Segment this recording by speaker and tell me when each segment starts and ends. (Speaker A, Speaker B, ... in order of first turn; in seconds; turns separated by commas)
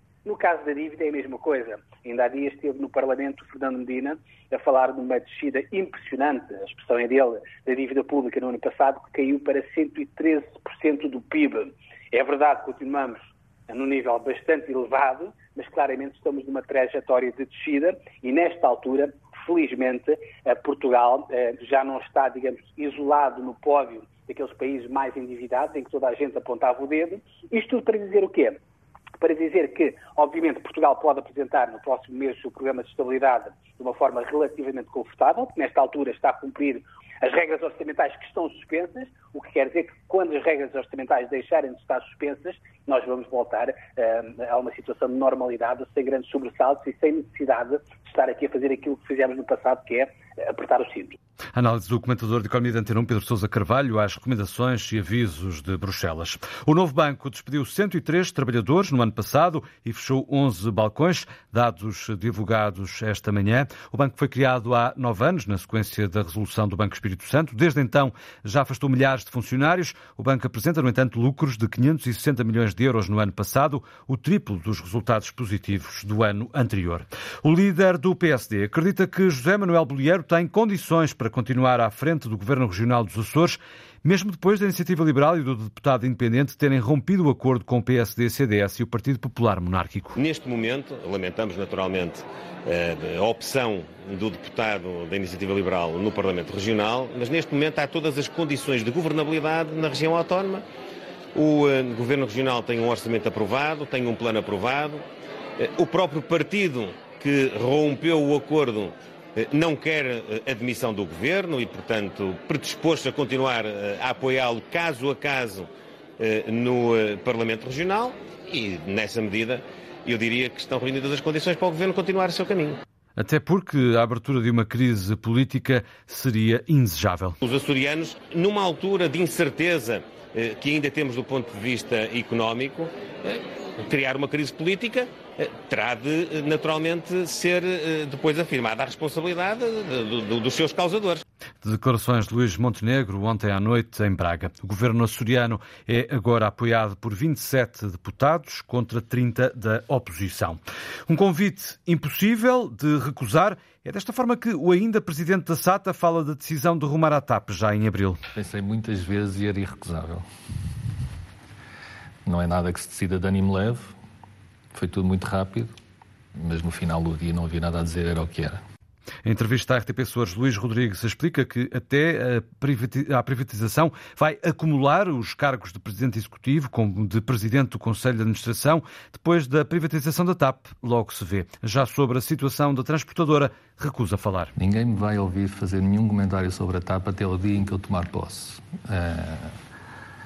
Speaker A: 0.2-28.6, Speaker A: 29.2-51.2, Speaker B: 51.5-90.2, Speaker C: 90.2-100.6, Speaker C: 101.3-105.0, Speaker C: 105.6-122.8, Speaker B: 123.2-127.4, Speaker C: 127.4-141.2, Speaker B: 141.6-158.2, Speaker D: 158.3-160.2, Speaker D: 162.2-163.9, Speaker D: 164.7-165.7, Speaker D: 166.4-168.6, Speaker B: 169.2-184.5, Speaker D: 184.6-189.6